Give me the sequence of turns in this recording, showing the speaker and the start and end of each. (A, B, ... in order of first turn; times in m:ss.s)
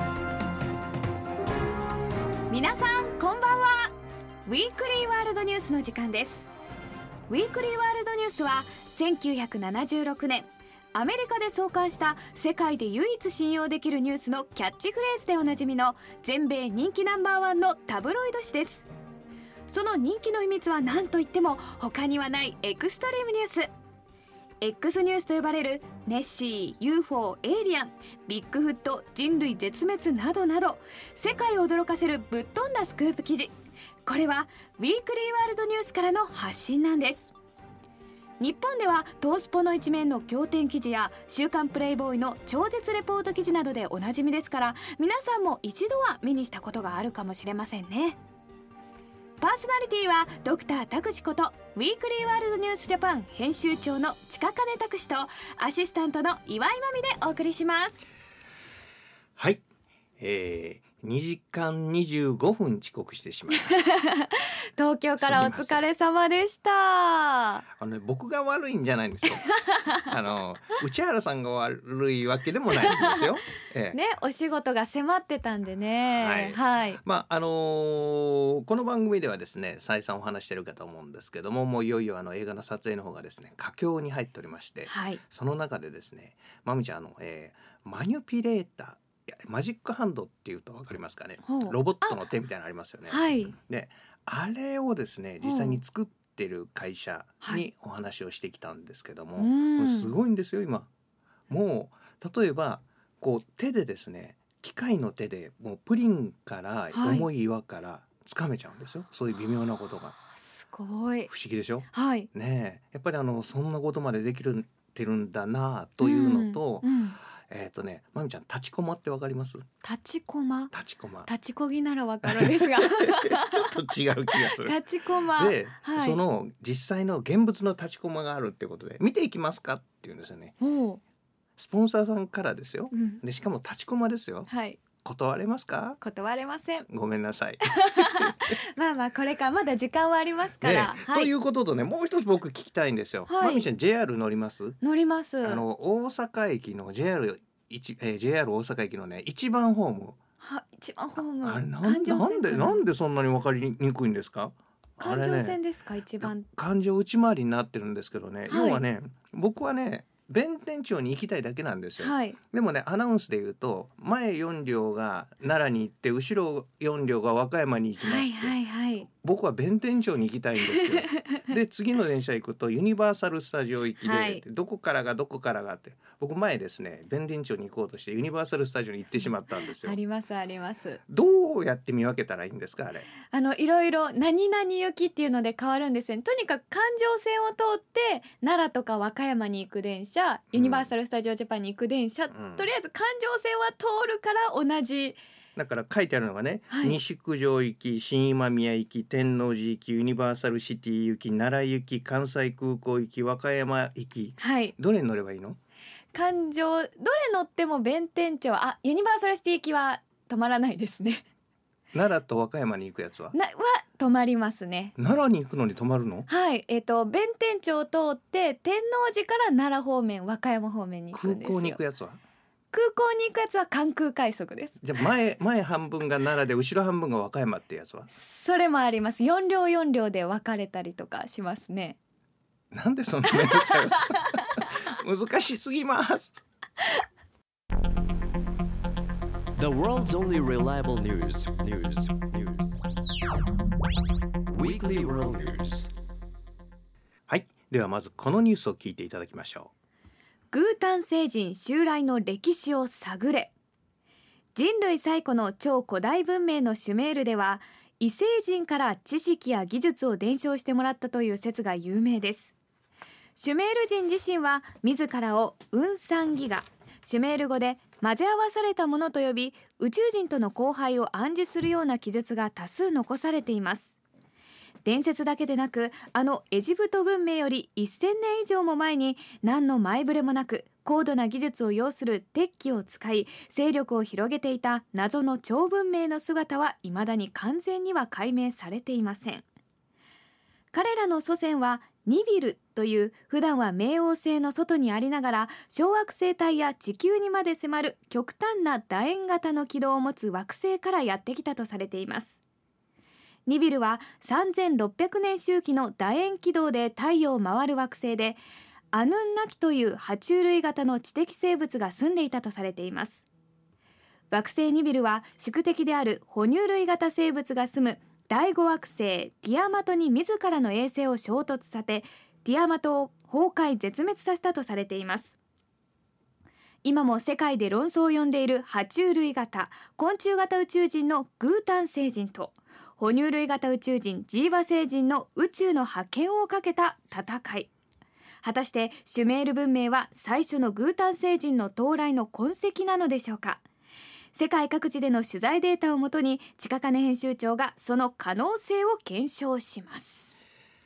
0:02.5-0:03.9 A
0:04.4-0:06.5 A
0:07.3-0:18.9 A
0:19.7-0:23.7 A
0:24.6-0:33.5 A
0:34.0-0:37.3 A
0:38.4-0:48.2 A
0:49.4-0:58.1 A
0:59.4-0:59.6 B
1:00.2-1:03.9 B
1:03.6-1:07.6 A
1:05.2-1:05.8 B
1:07.8-1:09.4 B
1:09.3-1:10.0 A
1:10.1-1:14.0 B
1:12.8-1:13.2 A
1:13.9-1:17.0 A
1:16.1-1:40.9 B
1:24.8-1:25.2 A
1:31.4-1:32.2 A
1:33.1-1:33.6 A
1:35.4-1:35.8 A
1:39.4-1:40.2 A
1:41.5-1:50.1 B
1:46.9-1:47.3 A
1:50.3-1:51.3 A
1:51.3-1:59.6 B
1:51.9-1:52.3 A
1:56.0-1:57.2 A
1:59.8-2:00.7 A
2:00.7-2:01.3 B
2:01.2-2:06.2 A
2:02.2-2:10.5 B
2:10.6-2:11.0 A
2:11.6-2:16.0 B
2:12.9-2:13.2 A
2:14.5-2:14.8 A
2:16.0-2:16.9 A
2:16.9-2:18.4 B
2:17.7-2:21.3 A
2:20.6-2:24.8 B
2:23.3-2:23.7 A
2:24.8-2:25.6 A
2:25.4-2:30.2 B
2:30.4-2:32.8 A
2:31.4-2:35.6 B
2:35.0-2:36.5 A
2:36.2-2:48.6 B
2:38.5-2:38.8 A
2:42.0-2:42.4 A
2:48.0-2:49.1 A
2:49.1-3:00.0 B
2:50.6-2:51.4 A
2:54.0-2:54.4 A
2:59.7-3:01.0 A
3:01.1-3:03.1 B
3:03.2-3:15.2 A
3:10.5-3:10.9 B
3:12.3-3:12.7 B
3:15.6-3:25.6 B
3:16.7-3:17.0 A
3:24.4-3:24.7 A
3:26.1-3:31.2 A
3:31.9-3:33.4 B
3:33.3-3:34.9 A
3:35.0-3:36.3 B
3:36.3-3:41.8 A
3:41.1-3:42.2 B
3:42.7-3:45.0 A
3:44.8-3:48.1 B
3:48.1-3:52.0 A
3:52.7-3:56.4 B
3:53.3-3:54.2 A
3:59.6-4:02.7 C
4:04.5-4:05.9 C
4:07.3-4:09.7 B
4:10.5-4:13.5 A
4:14.5-4:22.5 A
4:23.4-4:34.0 A
4:34.8-4:49.4 A
4:50.7-5:02.4 A
5:03.4-5:08.4 A
5:08.9-5:13.2 A
5:14.3-5:25.4 A
5:26.8-5:37.7 A
5:38.4-5:43.6 A
5:44.3-5:50.4 A